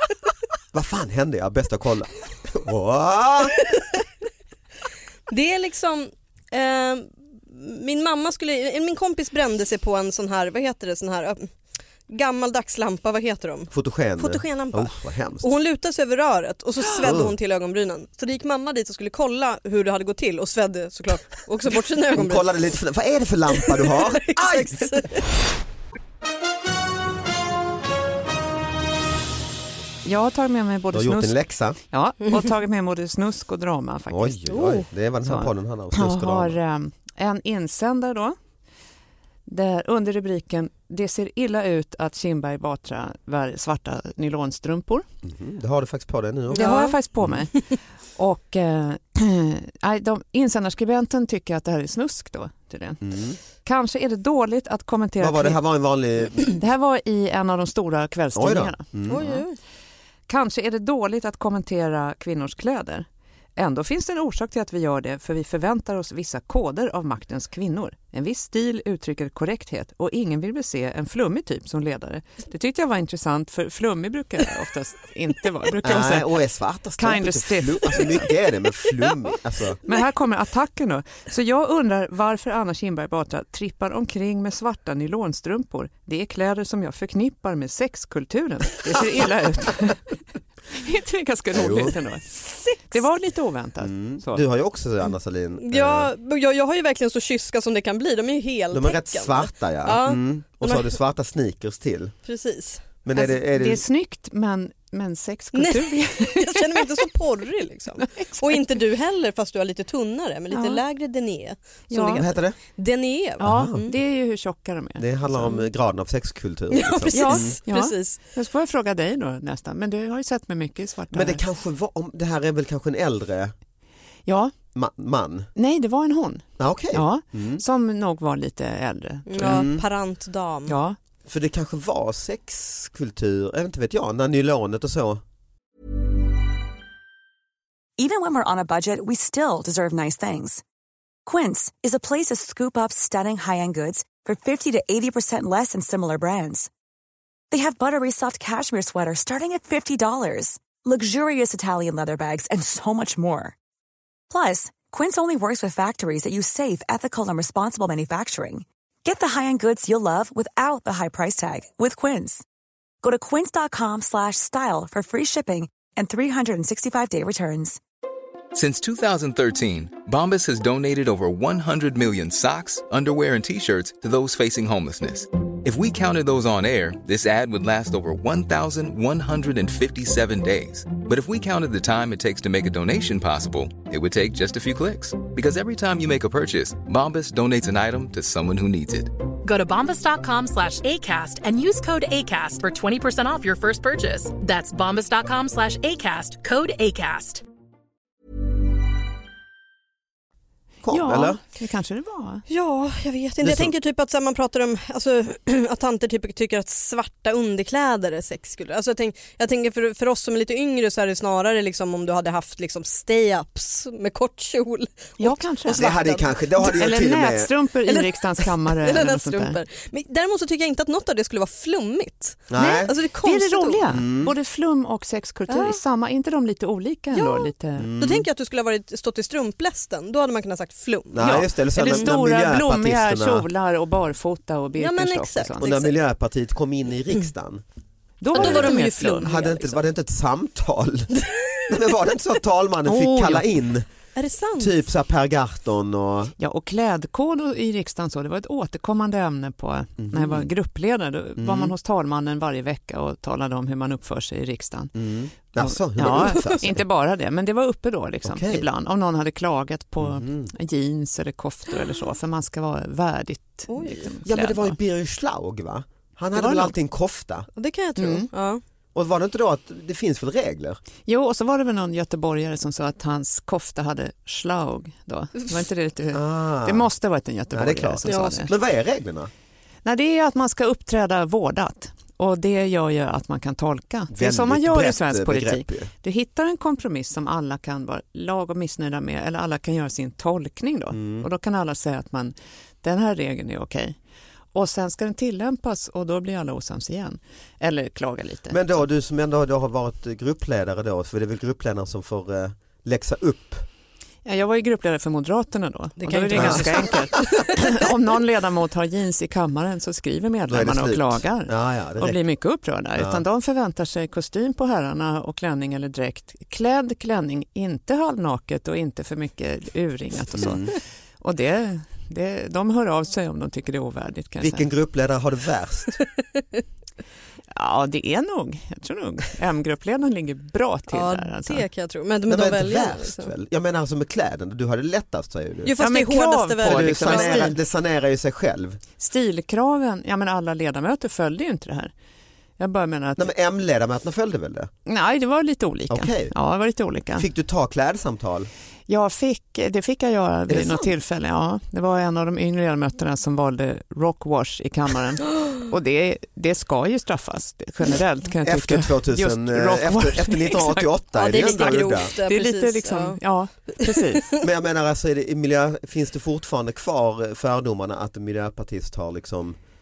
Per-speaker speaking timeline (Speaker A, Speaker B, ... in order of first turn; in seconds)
Speaker A: 0.7-3.6, 13.7-15.5, 17.0-17.3, 22.1-25.0, 30.9-31.8, 34.1-36.6, 45.2-47.4, 53.0-53.4, 55.2-56.6, 58.3-59.3, 75.8-79.8, 91.5-92.0, 93.8-96.1, 98.7-102.1, 103.0-103.8, 112.1-112.6, 113.4-113.9, 115.0-117.6, 121.1-123.5, 124.7-125.5, 126.6-127.6, 129.4-129.8, 131.2-135.2, 200.8-201.4, 203.4-203.7, 215.7-217.5, 222.5-222.9, 223.9-224.3, 227.8-228.3, 231.1-233.4, 235.6-237.6, 238.3-241.1, 241.7-243.8, 244.6-246.3, 250.0-250.5, 251.4-251.7, 254.9-256.8, 258.2-258.6, 260.0-260.5, 264.2-267.5, 268.9-270.8, 276.1-276.9, 277.5-279.3, 284.1-285.9, 290.9-291.3, 298.5-303.7, 306.3-306.9, 310.5-312.2, 313.0-313.2, 320.4-320.7, 324.4-326.0, 332.3-335.7, 336.6-338.8, 343.2-344.7, 345.9-346.3, 347.1-348.5, 350.5-350.9, 358.4-362.1, 364.4-369.6
Speaker B: 5.3-11.5, 12.1-22.4, 23.6-25.2, 46.5-47.0, 59.1-59.6, 95.6-100.9, 102.2-102.9, 105.5-113.9, 116.7-118.2, 129.3-130.8, 202.5-216.7, 217.8-223.9, 225.5-225.8, 227.1-232.1, 234.8-235.9, 238.3-239.6, 241.2-241.6, 244.2-244.7, 263.7-264.1, 267.5-268.6, 278.1-278.4, 306.0-307.7, 330.9-333.3, 335.6-337.5, 361.1-364.0
Speaker C: 30.0-31.4, 31.9-38.4, 39.5-45.0, 46.5-47.5, 48.1-53.0, 53.6-55.6, 56.4-59.4, 60.3-76.3, 77.0-78.3, 79.9-90.0, 90.7-94.4, 103.1-107.0, 108.0-108.6, 110.5-110.8, 111.9-112.2, 113.4-115.5, 117.1-121.4, 124.2-124.5, 125.5-129.7, 130.7-131.0, 200.9-202.4, 215.2-219.6, 222.6-227.9, 231.2-235.7, 238.2-239.7, 242.8-243.4, 246.4-254.9, 255.5-264.7, 266.3-266.7, 268.0-268.3, 271.0-278.5, 279.8-294.0, 294.5-298.6, 304.2-324.7, 327.5-331.7, 335.8-337.6, 339.0-341.9, 342.6-343.3, 344.9-347.2, 348.9-360.9, 362.2-364.2
Speaker D: 138.0-140.6, 141.2-146.7, 147.5-153.5, 154.3-162.4, 163.0-167.8
Speaker E: 168.5-189.1
Speaker F: 189.4-197.4